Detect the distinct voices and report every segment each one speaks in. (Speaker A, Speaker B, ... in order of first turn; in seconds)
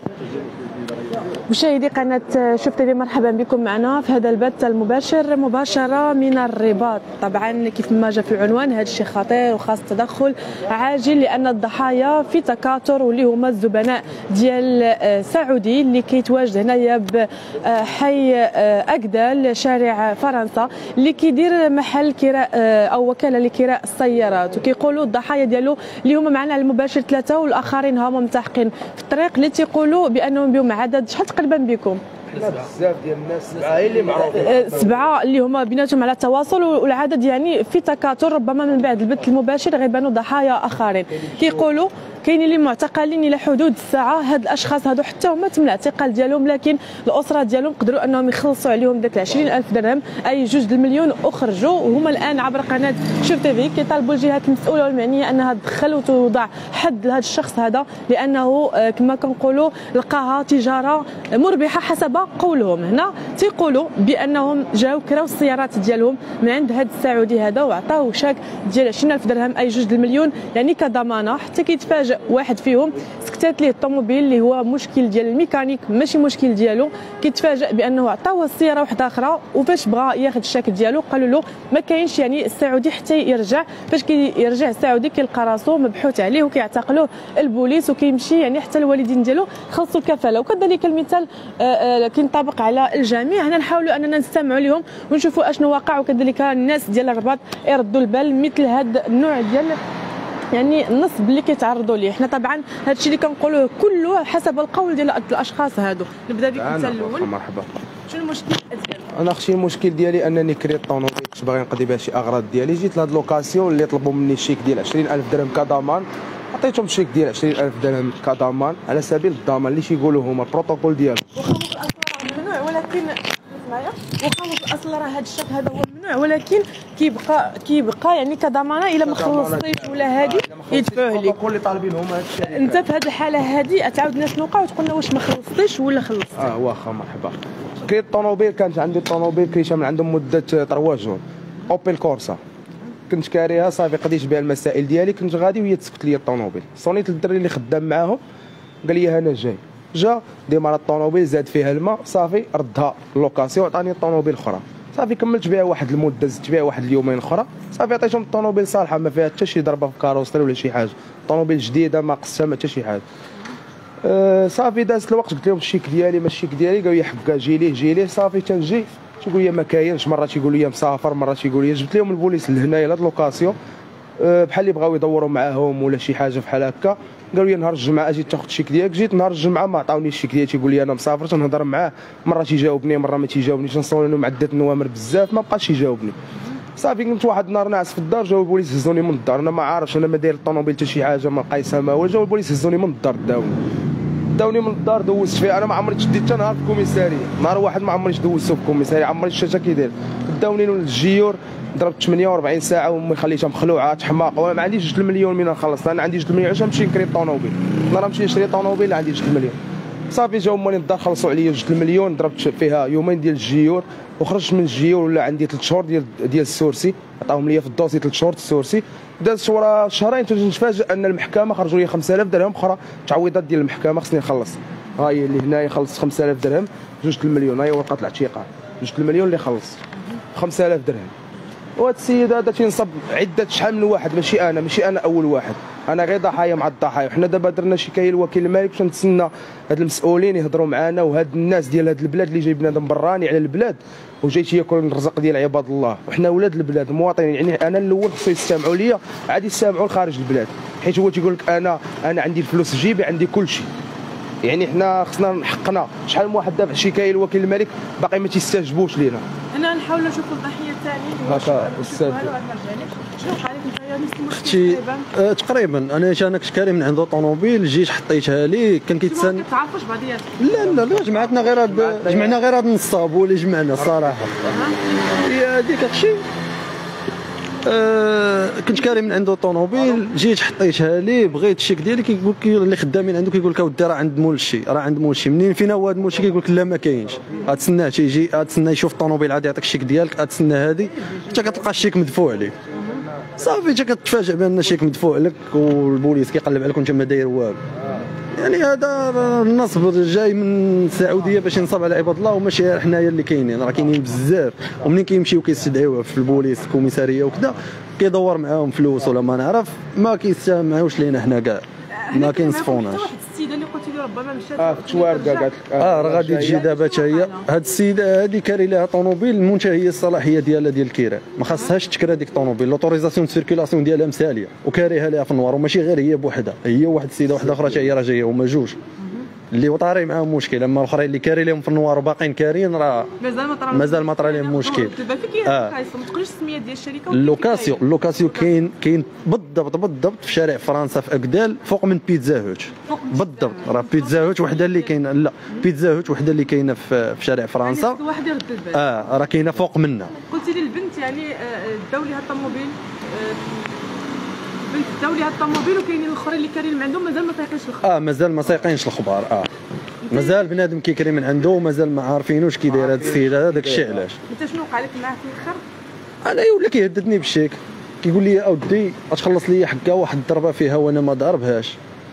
Speaker A: 1.5-32.0, 34.3-99.8, 100.5-107.3, 108.1-109.0, 121.3-131.3, 132.4-136.5, 259.5-265.1, 269.1-270.5, 274.5-274.8, 292.7-293.0, 311.9-315.5, 316.5-317.5, 333.2-338.5, 342.9-344.9, 347.6-348.8, 350.3-353.7, 354.7-357.8, 360.1-360.4, 364.3-365.6
Speaker B: 32.3-34.9, 106.5-107.7, 109.1-121.2, 129.0-132.8, 136.4-142.4, 143.1-148.2, 148.8-163.0, 164.0-173.6, 174.2-186.2, 186.8-193.6, 194.3-209.6, 210.1-229.8, 230.3-231.1, 231.8-253.7, 254.4-259.2, 261.2-262.3, 270.5-272.4, 273.8-274.6, 314.6-316.6, 362.7-364.0
Speaker C: 264.3-269.4, 270.4-274.4, 275.2-276.2, 277.6-292.5, 293.4-297.6, 298.3-313.1, 315.8-328.8, 329.5-333.1, 333.7-335.7, 337.1-348.0, 348.7-350.1, 357.8-359.5, 360.1-364.2, 366.2-371.8